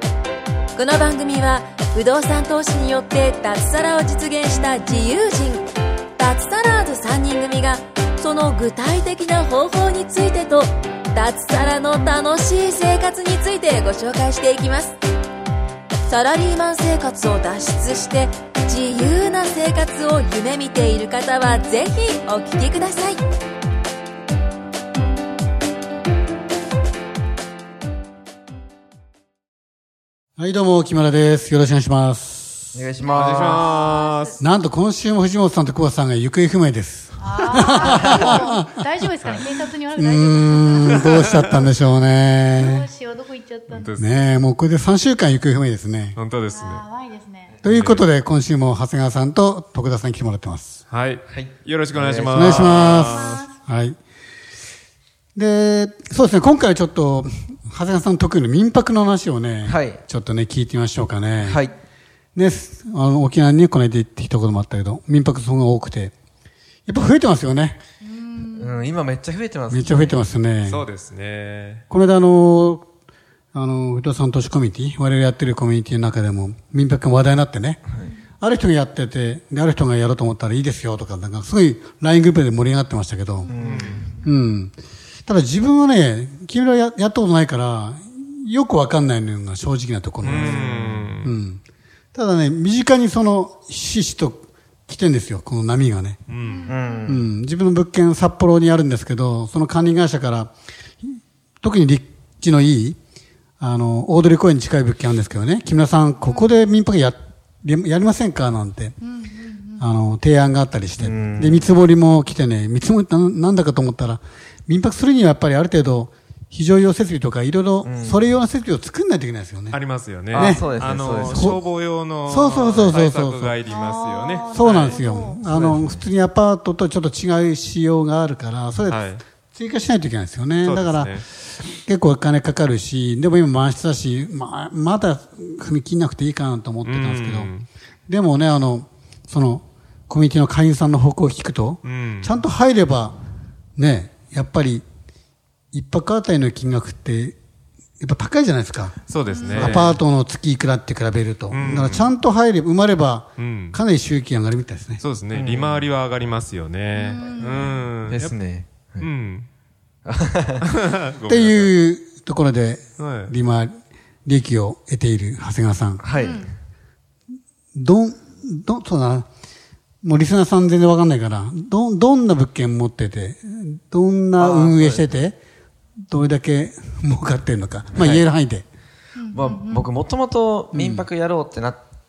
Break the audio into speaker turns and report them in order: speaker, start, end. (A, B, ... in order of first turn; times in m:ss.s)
0:00.7-0:15.0 A
0:16.0-0:23.2 A
0:30.4-0:32.8 B
0:32.7-0:33.7 C
0:33.0-0:34.4 D
0:33.1-0:34.4 E
0:34.4-0:38.7 B
0:37.2-0:41.0 D
0:38.0-0:38.4 C
0:39.2-0:39.5 E
0:39.9-0:42.9 B
0:40.8-0:41.6 E
0:42.5-0:43.9 D
0:43.7-0:44.2 E
0:44.0-0:46.2 B
0:46.2-0:46.8 E
0:46.5-0:47.6 D
0:47.6-0:48.0 E
0:47.6-0:50.8 B
0:50.9-0:53.4 E
0:51.3-0:53.0 C
0:52.3-0:54.0 B
0:53.0-0:53.5 D
0:55.3-1:01.6 B
0:59.6-1:00.0 C
1:01.4-1:01.7 C
1:02.3-1:06.1 B
1:06.8-1:07.8 B
1:08.1-1:08.7 D
1:08.5-1:10.3 C
1:09.7-1:10.8 B
1:10.6-1:11.8 E
1:11.9-1:12.9 B
1:13.5-1:17.8 B
1:18.4-1:23.6 B
1:23.4-1:24.1 C
1:23.6-1:24.1 E
1:24.1-1:31.6 B
1:30.2-1:31.1 C
1:30.2-1:31.3 E
1:32.1-1:36.2 B
1:36.3-1:36.8 E
1:36.4-1:37.2 D
1:36.6-1:37.2 C
1:37.0-1:43.0 B
1:43.6-1:49.0 B
1:46.2-1:46.5 D
1:49.0-1:49.8 D
1:49.8-1:59.8 B
1:51.0-1:51.7 C
1:57.8-1:58.2 C
1:59.7-2:05.0 E
2:00.3-2:00.6 B
2:00.3-2:01.6 C
2:01.3-2:01.6 B
2:02.2-2:03.6 B
2:03.7-2:05.4 D
2:04.5-2:17.5 B
2:05.5-2:06.0 C
2:08.9-2:09.2 E
2:10.6-2:11.2 E
2:16.8-2:17.7 E
2:18.1-2:23.2 B
2:21.8-2:22.4 E
2:23.8-2:24.8 B
2:25.7-2:27.4 B
2:28.0-2:29.0 B
2:29.1-2:30.0 E
2:29.3-2:29.7 D
2:29.5-2:35.0 B
2:29.6-2:30.0 C
2:31.5-2:32.1 E
2:33.4-2:33.8 E
2:35.0-2:38.3 E
2:35.3-2:35.8 C
2:36.9-2:37.9 D
2:38.0-2:39.1 C
2:39.0-2:39.5 E
2:40.0-2:40.6 C
2:40.6-2:41.7 E
2:41.3-2:46.0 B
2:43.0-2:43.3 E
2:46.0-2:46.5 C
2:46.2-2:46.5 D
2:47.7-2:49.3 B
2:50.0-2:55.4 B
2:54.4-2:55.0 C
2:56.1-2:58.6 B
2:57.9-2:58.2 C
2:59.2-2:59.9 D
2:59.3-3:01.8 C
3:00.7-3:01.1 B